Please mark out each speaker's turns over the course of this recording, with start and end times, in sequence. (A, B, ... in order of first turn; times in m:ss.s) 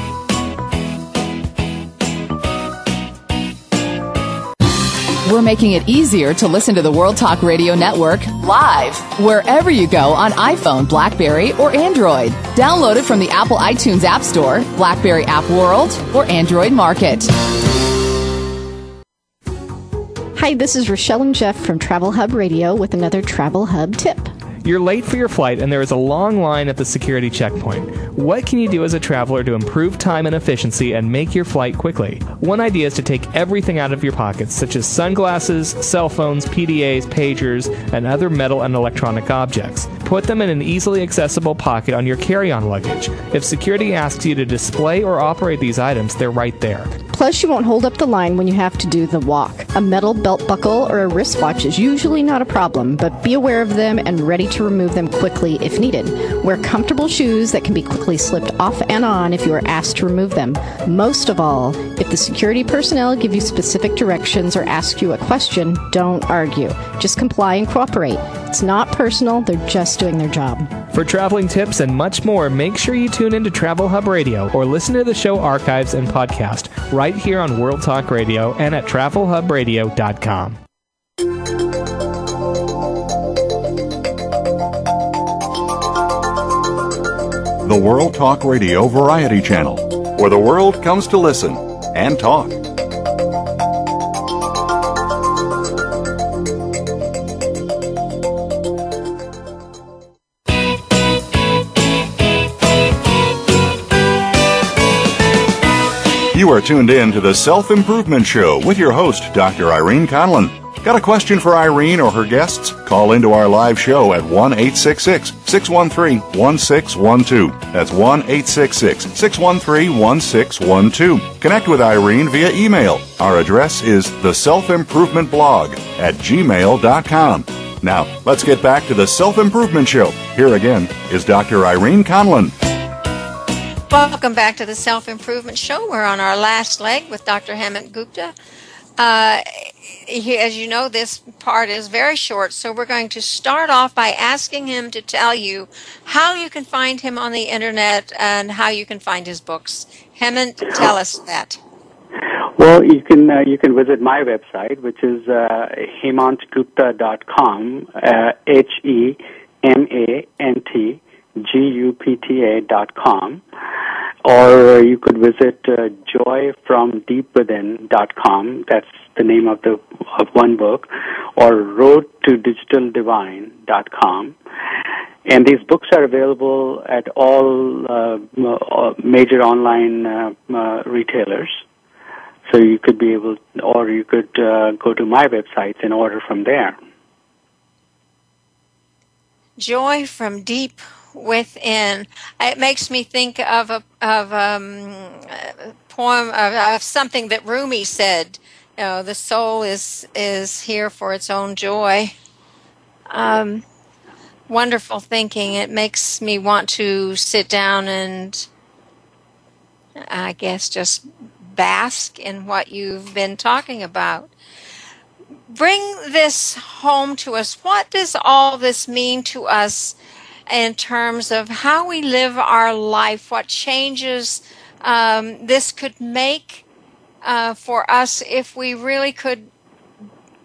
0:05.2-0:17.3 A
0:20.3-0:24.3 B
0:24.6-0:46.9 C
0:47.1-1:10.7 B
1:10.9-1:20.6 C
1:27.6-1:32.6 D
1:46.3-2:12.5 D
2:13.9-2:18.3 E
2:19.0-2:31.6 E
2:32.4-2:43.4 F
2:44.2-2:54.4 F
2:55.2-3:01.6 F
3:02.4-3:06.8 F
3:09.6-3:22.1 E
3:23.1-3:23.6 E
3:24.5-3:28.5 E
3:30.0-3:34.3 E
3:35.5-3:40.0 E
3:40.5-3:46.6 E
3:47.2-3:49.5 E